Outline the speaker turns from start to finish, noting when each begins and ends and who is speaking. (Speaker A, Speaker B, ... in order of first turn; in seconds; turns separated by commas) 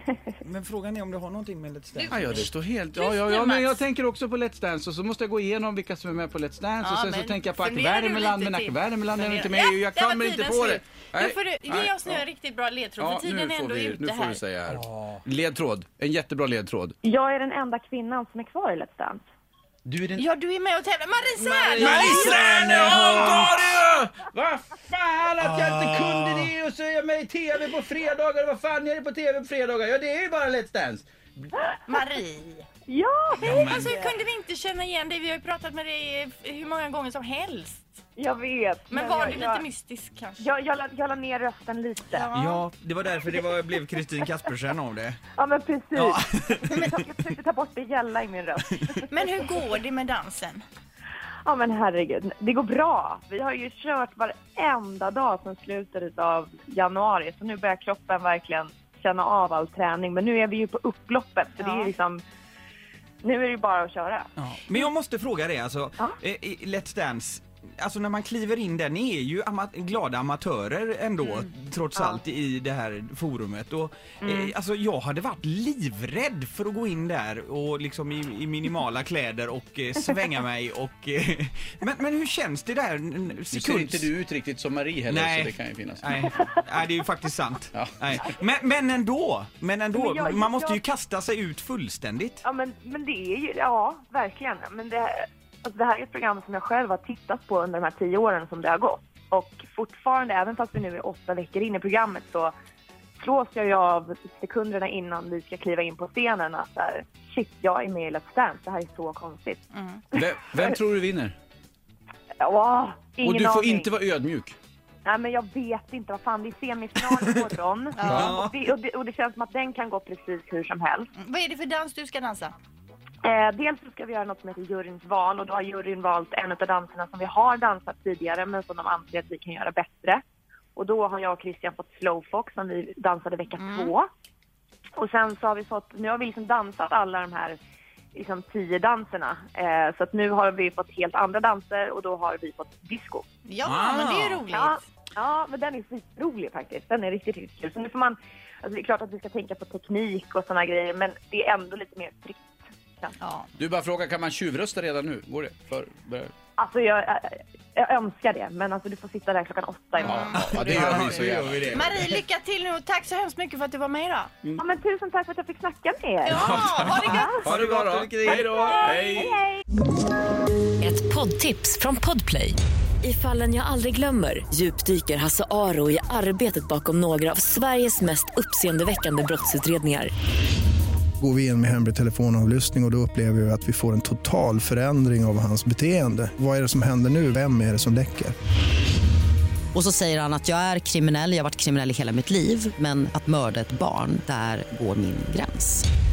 Speaker A: 0.4-2.5, Speaker B: 2.0-3.8, Speaker C: 2.1-12.2, Speaker B: 6.8-14.4, Speaker C: 13.0-16.9, Speaker D: 17.0-19.2, Speaker C: 19.9-20.2, Speaker B: 20.1-23.5, Speaker C: 21.4-31.5, Speaker A: 21.9-23.3, Speaker B: 31.9-32.6, Speaker D: 32.9-34.1, Speaker C: 33.4-33.9, Speaker B: 33.4-37.9, Speaker D: 38.1-39.6, Speaker B: 38.9-40.4, Speaker D: 40.4-42.3, Speaker B: 42.1-42.6, Speaker A: 42.3-45.2, Speaker D: 45.3-49.1, Speaker A: 45.9-46.9, Speaker B: 49.1-50.6, Speaker D: 51.4-62.2, Speaker B: 61.6-61.9, Speaker D: 63.2-64.3, Speaker A: 64.4-84.1, Speaker D: 71.9-72.2, Speaker D: 74.2-74.5, Speaker C: 83.5-86.1, Speaker A: 85.1-92.4, Speaker C: 87.7-88.3, Speaker D: 89.9-90.8, Speaker D: 92.4-102.5, Speaker D: 103.2-109.6, Speaker B: 109.7-110.0, Speaker C: 110.1-111.3, Speaker D: 112.4-114.0, Speaker C: 113.2-114.5, Speaker D: 115.0-121.1, Speaker B: 118.0-118.3, Speaker A: 118.0-118.5, Speaker B: 121.2-122.5, Speaker D: 123.2-130.2, Speaker D: 130.8-134.1, Speaker B: 133.6-133.9, Speaker D: 134.9-137.6, Speaker D: 138.1-143.2, Speaker B: 143.4-144.8, Speaker C: 143.6-144.4, Speaker D: 144.5-153.2, Speaker B: 153.2-153.5, Speaker C: 153.6-156.3, Speaker D: 156.6-160.3, Speaker C: 160.0-161.9, Speaker B: 160.0-164.3, Speaker A: 160.3-162.2, Speaker D: 164.6-166.5, Speaker B: 166.2-167.4, Speaker C: 166.3-169.4, Speaker A: 166.5-168.4, Speaker D: 167.1-167.4, Speaker D: 168.2-169.6, Speaker B: 168.5-168.9, Speaker E: 170.8-180.1, Speaker F: 181.2-188.3, Speaker G: 189.7-195.8